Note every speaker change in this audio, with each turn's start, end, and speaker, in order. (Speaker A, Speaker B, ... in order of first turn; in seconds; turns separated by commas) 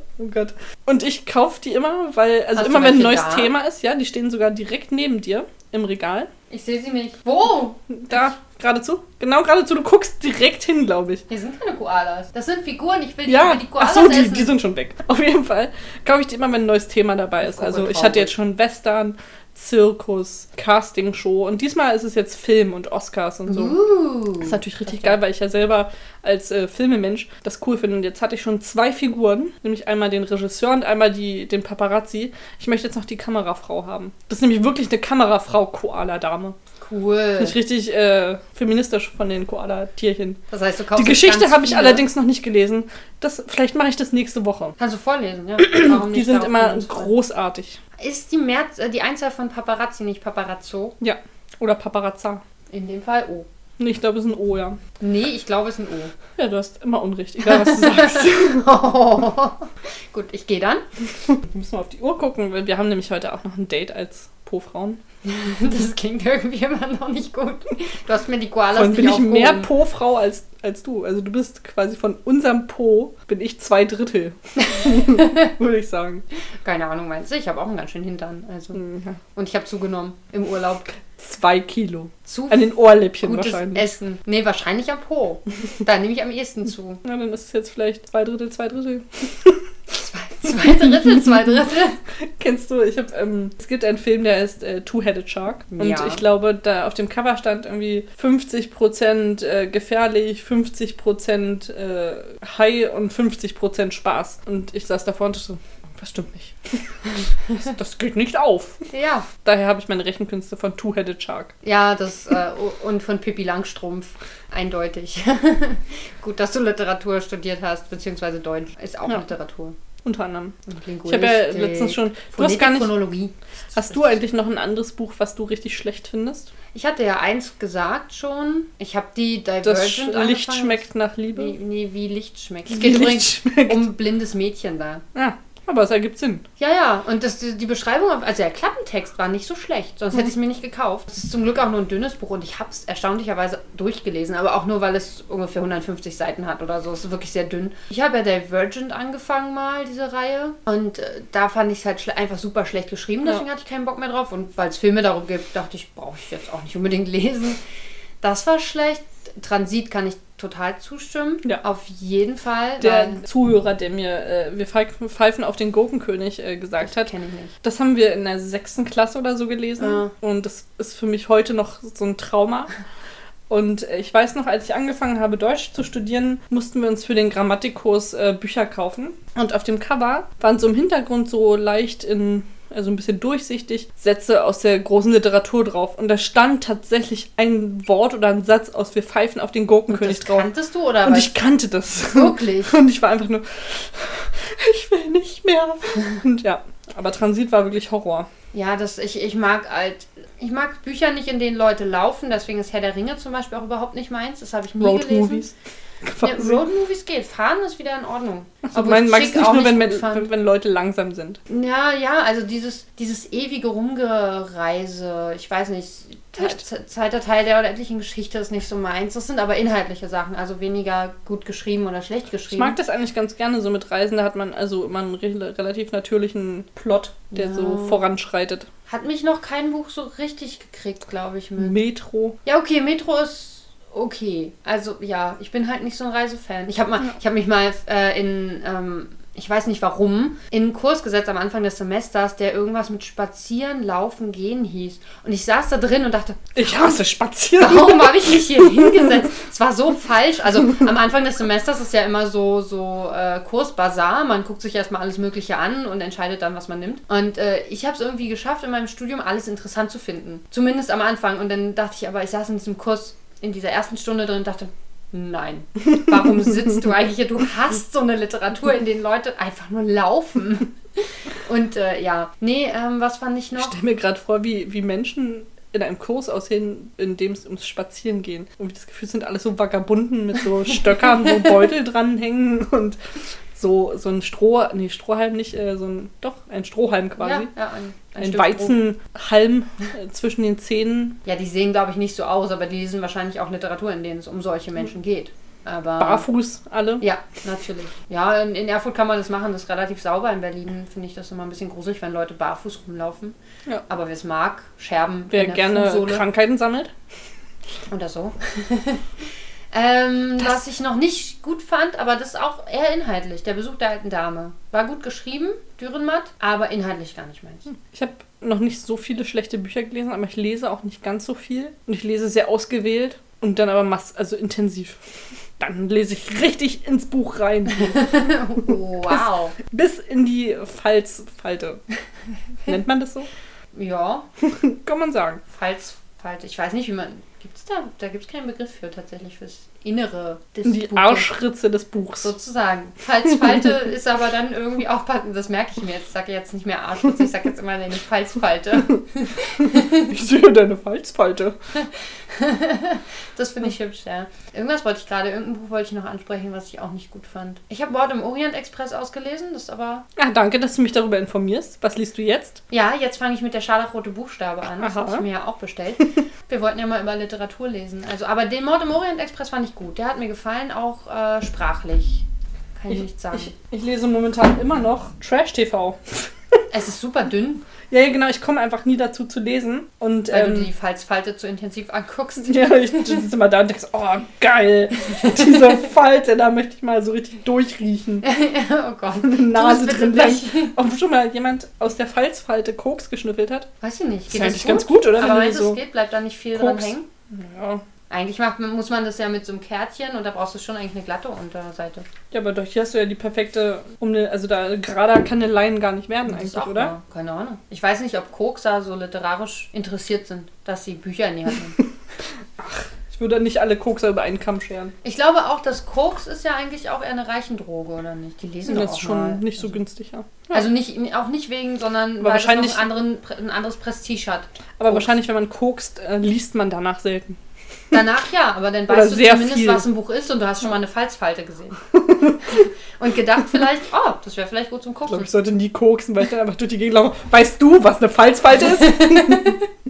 Speaker A: 0.2-6.3, Speaker B: 2.5-3.5, Speaker B: 6.5-8.2, Speaker A: 7.9-11.2, Speaker B: 11.3-14.5, Speaker A: 13.3-23.8, Speaker B: 17.4-18.3, Speaker B: 23.5-25.2, Speaker A: 24.4-36.6, Speaker B: 36.8-37.6, Speaker A: 37.4-40.4, Speaker B: 40.5-42.0, Speaker A: 41.0-44.8, Speaker B: 44.8-47.1, Speaker A: 45.6-47.8, Speaker B: 48.0-51.0, Speaker A: 51.0-52.4, Speaker B: 52.7-53.5, Speaker A: 53.8-54.8, Speaker B: 55.0-56.1, Speaker A: 56.4-58.7, Speaker B: 57.4-60.8, Speaker A: 61.2-65.0, Speaker B: 65.2-69.7, Speaker A: 68.7-76.2, Speaker B: 74.6-75.5, Speaker B: 76.6-78.8, Speaker A: 78.7-79.2, Speaker B: 79.3-80.9, Speaker A: 81.2-83.8, Speaker B: 82.2-87.0, Speaker A: 87.0-89.6, Speaker B: 89.9-92.0, Speaker A: 90.6-91.3, Speaker A: 92.2-108.8, Speaker B: 95.7-96.2, Speaker B: 108.9-109.3, Speaker A: 109.4-111.5, Speaker B: 111.6-119.8, Speaker A: 120.0-123.0, Speaker B: 120.7-124.2, Speaker A: 123.7-126.5, Speaker B: 126.7-135.0, Speaker A: 129.6-131.5, Speaker A: 132.7-133.9, Speaker A: 135.1-136.4, Speaker B: 136.6-157.6, Speaker B: 158.2-163.2, Speaker A: 162.8-167.1, Speaker B: 166.8-167.5, Speaker A: 167.6-172.7, Speaker B: 169.8-170.1, Speaker A: 173.5-190.5, Speaker B: 189.9-191.4, Speaker A: 191.0-198.3, Speaker B: 192.1-192.8, Speaker B: 198.5-205.5, Speaker A: 204.8-205.5, Speaker A: 206.0-206.6, Speaker B: 206.2-210.3, Speaker A: 208.7-211.4, Speaker B: 211.5-222.8, Speaker A: 222.5-228.7, Speaker B: 227.3-228.0, Speaker B: 228.9-231.8, Speaker A: 231.6-232.4, Speaker B: 232.4-247.0, Speaker A: 246.5-249.0, Speaker B: 247.6-273.8, Speaker A: 273.6-283.0, Speaker B: 281.0-281.6, Speaker A: 283.5-287.5, Speaker B: 287.2-288.8, Speaker A: 288.2-291.2, Speaker B: 291.2-296.2, Speaker A: 296.0-297.0, Speaker B: 297.0-303.4, Speaker B: 303.9-306.2, Speaker A: 305.3-306.9, Speaker B: 307.9-317.7, Speaker A: 317.7-325.0, Speaker A: 325.6-328.3, Speaker B: 327.8-329.5, Speaker A: 329.1-331.8, Speaker A: 332.6-333.3, Speaker B: 333.7-334.3, Speaker A: 334.4-335.4, Speaker B: 335.5-341.3, Speaker A: 340.6-342.3, Speaker B: 342.2-350.1, Speaker A: 349.6-351.6, Speaker B: 351.7-360.0, Speaker A: 360.2-362.6, Speaker B: 362.7-372.2, Speaker A: 364.8-365.2, Speaker B: 372.8-373.5, Speaker A: 372.9-376.6, Speaker B: 376.7-377.6, Speaker A: 377.9-380.7, Speaker B: 380.3-383.1, Speaker A: 382.4-388.3, Speaker B: 385.1-385.8, Speaker B: 388.2-390.7, Speaker A: 389.2-393.7, Speaker B: 393.8-397.1, Speaker A: 394.3-395.8, Speaker A: 396.5-397.8, Speaker B: 398.1-402.1, Speaker A: 402.3-406.9, Speaker B: 406.3-411.8, Speaker A: 412.6-414.9, Speaker B: 415.0-419.8, Speaker A: 418.7-420.6, Speaker B: 420.5-425.1, Speaker A: 422.2-422.9, Speaker A: 424.8-427.4, Speaker B: 427.9-431.8, Speaker A: 428.9-429.8, Speaker A: 431.9-432.6, Speaker B: 432.4-435.3, Speaker A: 435.1-439.6, Speaker B: 438.7-439.6